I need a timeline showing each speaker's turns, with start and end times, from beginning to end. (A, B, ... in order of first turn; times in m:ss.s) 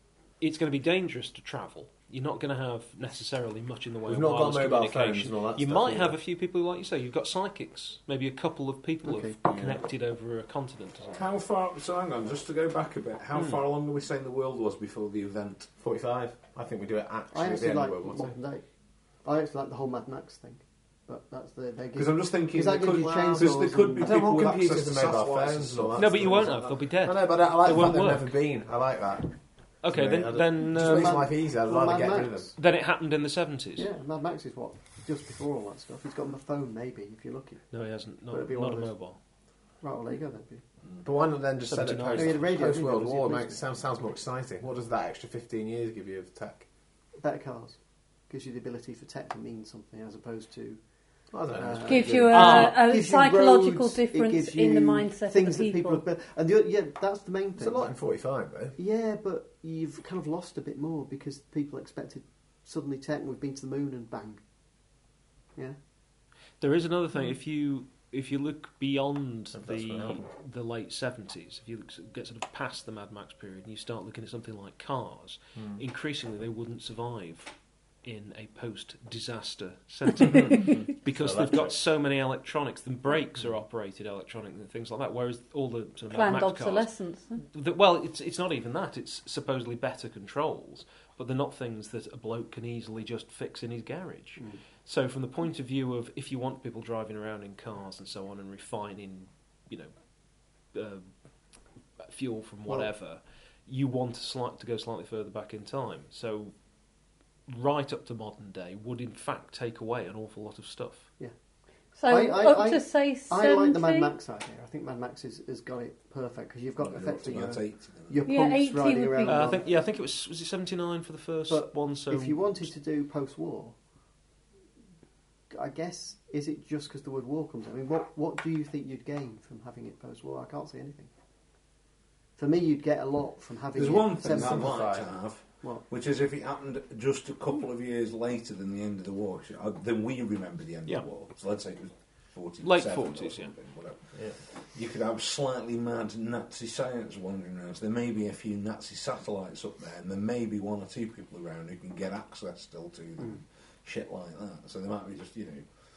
0:00.4-0:11.3 A
0:04.1-0:06.2 B
0:09.0-0:09.4 C
0:09.4-0:09.8 B
0:11.1-0:15.7 D
0:15.8-0:18.3 B
0:17.3-0:18.6 C
0:19.2-0:24.2 C
0:22.0-0:26.5 D
0:24.0-0:32.6 B
0:26.0-0:28.4 A
0:29.8-0:31.3 A
0:30.8-0:32.5 C
0:32.6-0:33.9 A
0:33.8-0:37.7 C
0:37.7-0:39.2 A
0:38.3-0:39.0 C
0:39.8-0:40.6 C
0:41.0-0:46.6 B
0:41.6-0:42.4 A
0:42.1-0:43.6 C
0:47.2-0:47.8 C
0:48.3-0:50.8 C
0:51.3-0:52.6 B
0:51.5-0:57.9 C
0:51.8-0:56.0 E
0:52.3-0:52.8 A
0:57.6-0:58.8 B
0:58.8-1:04.4 C
1:06.6-1:17.5 A
1:09.6-1:10.3 B
1:18.0-1:40.0 A
1:21.1-1:21.8 B
1:26.1-1:27.4 E
1:40.7-1:41.1 A
1:42.0-1:46.5 A
1:47.5-1:51.1 A
1:52.0-1:54.1 E
1:52.1-1:59.6 C
1:56.8-1:58.2 D
1:58.2-1:59.6 E
1:59.2-2:02.7 A
2:01.5-2:03.8 C
2:05.5-2:11.1 C
2:12.4-2:14.9 C
2:13.8-2:35.7 D
2:14.2-2:15.1 B
2:22.6-2:23.5 A